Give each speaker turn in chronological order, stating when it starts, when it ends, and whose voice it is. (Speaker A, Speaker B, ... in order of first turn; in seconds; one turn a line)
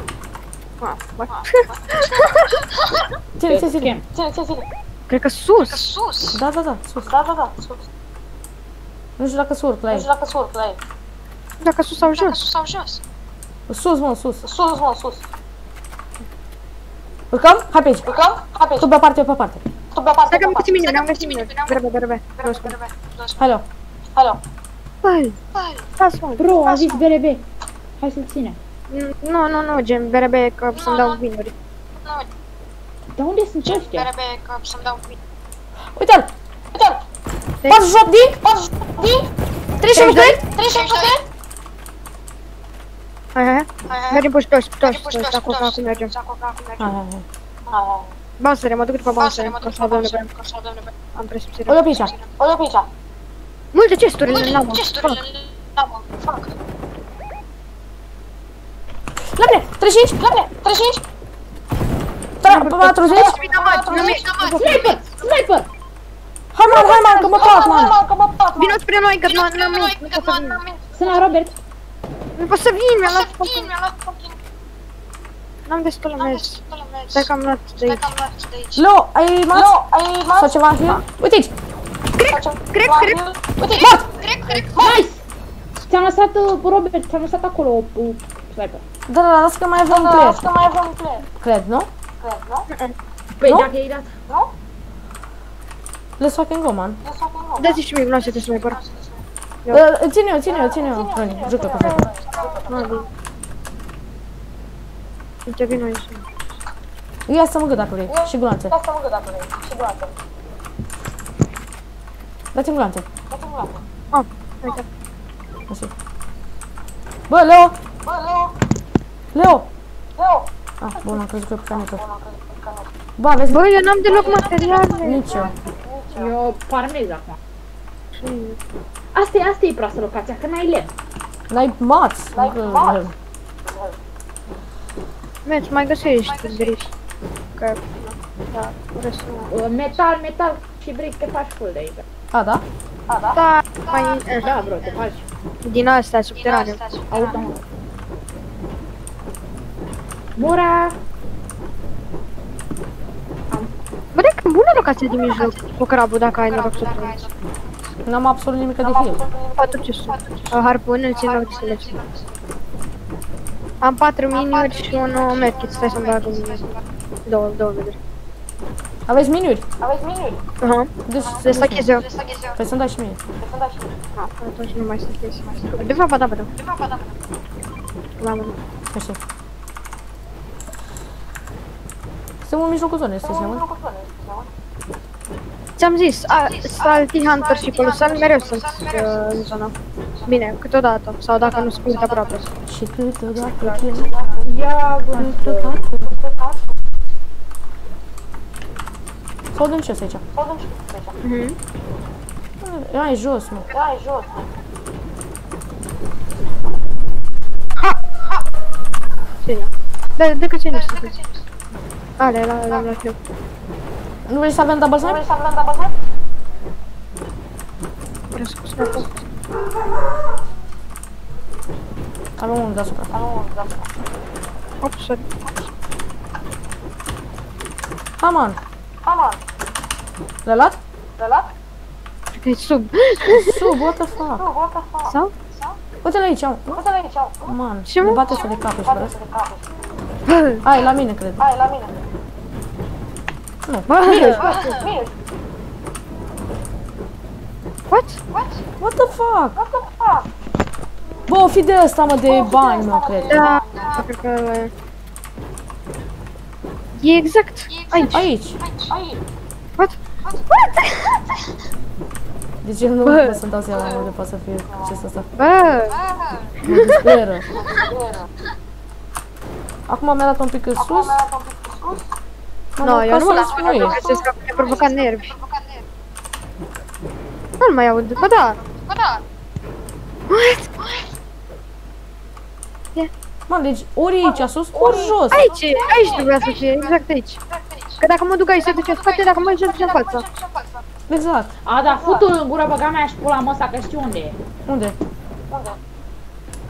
Speaker A: 0.8-2.6
Speaker B: 1.3-3.0
Speaker C: 3.4-3.9
Speaker D: 3.5-4.0
Speaker E: 4.1-4.7
Speaker A: 5.1-5.9
Speaker B: 5.6-6.4
Speaker C: 6.3-7.1
Speaker E: 7.0-7.8
Speaker C: 9.2-10.1
Speaker E: 9.9-10.8
Speaker A: 11.6-12.4
Speaker B: 12.1-13.0
Speaker C: 13.7-14.4
Speaker E: 14.4-15.2
Speaker C: 17.3-18.1
Speaker E: 18.1-18.9
Speaker C: 18.8-19.6
Speaker E: 19.9-20.7
Speaker A: 20.3-22.8
Speaker B: 20.7-21.8
Speaker B: 22.4-23.4
Speaker C: 23.4-23.6
Speaker E: 24.1-24.4
Speaker A: 25.0-25.4
Speaker B: 25.5-25.9
Speaker A: 26.0-26.5
Speaker D: 26.4-27.4
Speaker B: 26.6-27.0
Speaker D: 28.0-28.6
Speaker A: 28.9-31.5
Speaker B: 30.7-31.2
Speaker B: 32.0-32.3
Speaker D: 33.1-34.1
Speaker B: 33.6-35.2
Speaker C: 35.9-36.3
Speaker E: 36.7-37.0
Speaker C: 37.6-38.4
Speaker E: 38.4-39.3
Speaker C: 39.8-40.4
Speaker A: 39.9-40.4
Speaker E: 40.5-41.2
Speaker B: 40.6-41.2
Speaker A: 43.3-46.1
Speaker B: 43.9-44.2
Speaker B: 44.8-46.9
Speaker C: 46.8-47.2
Speaker E: 47.7-48.1
Speaker A: 48.4-50.2
Speaker B: 49.0-50.9
Speaker A: 51.1-52.0
Speaker C: 51.7-52.1
Speaker B: 52.0-52.2
Speaker E: 52.4-52.9
Speaker A: 53.7-55.2
Speaker B: 54.2-56.5
Speaker C: 59.3-60.2
Speaker E: 60.2-61.0
Speaker C: 62.4-63.3
Speaker A: 62.4-64.9
Speaker E: 63.1-64.2
Speaker B: 63.3-65.0
Speaker D: 64.5-65.7
Speaker C: 66.5-68.0
Speaker E: 66.6-68.8
Speaker B: 67.4-67.9
Speaker A: 68.5-70.6
Speaker B: 69.2-71.3
Speaker D: 71.0-71.5
Speaker A: 72.4-73.7
Speaker B: 73.0-74.4
Speaker A: 75.7-76.6
Speaker B: 76.2-78.8
Speaker A: 77.1-78.1
Speaker C: 78.8-79.7
Speaker E: 79.5-81.0
Speaker C: 80.3-81.5
Speaker A: 82.2-83.1
Speaker E: 82.3-85.0
Speaker B: 83.7-84.8
Speaker D: 84.8-85.2
Speaker D: 85.8-88.8
Speaker C: 89.1-90.4
Speaker E: 89.9-91.3
Speaker C: 91.4-91.9
Speaker E: 92.2-92.7
Speaker D: 93.4-94.1
Speaker C: 93.4-93.7
Speaker C: 96.2-97.0
Speaker E: 97.0-97.8
Speaker A: 97.6-98.8
Speaker B: 98.2-99.2
Speaker C: 99.7-102.1
Speaker E: 100.5-103.0
Speaker A: 102.4-103.0
Speaker B: 102.4-102.9
Speaker A: 105.5-106.2
Speaker C: 107.3-108.8
Speaker E: 108.1-110.1
Speaker C: 112.5-113.0
Speaker E: 113.3-113.8
Speaker A: 114.1-114.8
Speaker C: 117.3-117.8
Speaker E: 118.0-118.6
Speaker C: 119.3-119.7
Speaker E: 120.2-120.5
Speaker C: 120.8-122.0
Speaker E: 121.7-122.9
Speaker C: 123.2-123.7
Speaker A: 123.5-125.3
Speaker E: 124.0-126.3
Speaker B: 124.1-124.5
Speaker C: 125.0-125.5
Speaker D: 126.1-127.4
Speaker A: 128.1-128.6
Speaker D: 129.1-130.9
Speaker C: 131.5-133.1
Speaker E: 132.3-133.1
Speaker E: 133.6-134.0
Speaker A: 135.4-136.9
Speaker B: 136.0-136.8
Speaker A: 138.5-139.5
Speaker D: 139.5-142.0
Speaker C: 142.3-142.6
Speaker E: 143.1-143.4
Speaker A: 143.3-144.4
Speaker B: 143.8-144.2
Speaker D: 144.4-145.2
Speaker A: 145.6-146.8
Speaker B: 146.3-147.4
Speaker D: 147.1-147.6
Speaker D: 150.4-150.9
Speaker A: 154.1-157.2
Speaker B: 155.1-157.6
Speaker C: 158.0-159.2
Speaker E: 158.8-160.2
Speaker A: 159.6-161.9
Speaker B: 160.2-160.5
Speaker B: 161.1-162.3
Speaker A: 163.8-166.6
Speaker B: 164.3-166.8
Speaker A: 167.2-168.0
Speaker C: 169.1-169.7
Speaker E: 169.8-170.4
Speaker A: 170.6-172.1
Speaker C: 171.1-172.0
Speaker E: 171.2-171.7
Speaker B: 171.9-172.6
Speaker C: 172.5-173.2
Speaker E: 173.4-173.9
Speaker A: 174.1-176.5
Speaker B: 176.6-177.1
Speaker A: 178.2-178.6
Speaker C: 178.9-179.2
Speaker C: 182.4-183.6
Speaker E: 183.2-184.5
Speaker A: 185.8-189.7
Speaker B: 186.3-189.3
Speaker A: 190.3-192.5
Speaker B: 191.3-192.4
Speaker C: 192.7-194.1
Speaker E: 193.8-194.4
Speaker D: 194.4-195.8
Speaker C: 195.1-195.8
Speaker E: 195.9-196.6
Speaker C: 199.5-200.2
Speaker E: 200.3-201.2
Speaker A: 201.2-201.6
Speaker C: 202.6-203.7
Speaker E: 203.7-204.4
Speaker A: 209.4-211.1
Speaker B: 210.7-211.4
Speaker A: 212.2-213.2
Speaker C: 214.3-215.2
Speaker E: 215.0-215.9
Speaker A: 218.3-219.1
Speaker C: 222.4-223.1
Speaker E: 223.1-223.9
Speaker A: 224.8-225.2
Speaker C: 228.2-228.6
Speaker E: 229.0-229.4
Speaker C: 230.4-230.8
Speaker E: 231.2-231.5
Speaker A: 232.4-233.8
Speaker C: 233.2-234.5
Speaker E: 234.2-235.7
Speaker A: 235.1-235.3
Speaker C: 236.0-236.8
Speaker E: 236.7-237.5
Speaker C: 237.5-239.1
Speaker A: 237.9-238.3
Speaker E: 238.2-239.6
Speaker A: 240.2-240.6
Speaker C: 240.6-241.4
Speaker E: 241.4-242.0
Speaker C: 243.6-244.6
Speaker A: 243.9-244.8
Speaker E: 244.0-245.1
Speaker B: 244.4-244.8
Speaker A: 247.9-248.2
Speaker B: 248.3-248.6
Speaker C: 248.8-249.6
Speaker E: 249.6-250.3
Speaker C: 251.3-253.4
Speaker E: 252.2-254.0
Speaker A: 253.3-254.7
Speaker B: 253.7-254.1
Speaker A: 256.9-258.2
Speaker B: 257.7-258.9
Speaker C: 258.1-258.6
Speaker E: 258.9-259.2
Speaker A: 260.5-261.2
Speaker C: 262.6-265.3
Speaker A: 263.0-263.4
Speaker E: 263.7-264.1
Speaker E: 264.6-265.1
Speaker A: 265.4-266.0
Speaker B: 265.9-266.5
Speaker C: 266.6-267.5
Speaker A: 266.7-267.1
Speaker E: 267.6-268.3
Speaker C: 269.9-271.2
Speaker E: 270.8-272.1
Speaker C: 272.8-274.0
Speaker A: 272.8-275.3
Speaker E: 273.2-274.9
Speaker B: 273.4-275.8
Speaker A: 277.6-278.6
Speaker B: 278.2-279.2
Speaker A: 280.3-281.0
Speaker C: 283.5-285.5
Speaker E: 284.7-286.2
Speaker D: 284.8-285.1
Speaker A: 285.3-287.4
Speaker B: 285.6-288.0
Speaker A: 288.0-290.2
Speaker B: 288.5-290.8
Speaker C: 291.1-291.5
Speaker D: 291.6-294.4
Speaker E: 291.9-292.3
Speaker C: 294.6-294.9
Speaker E: 295.5-295.8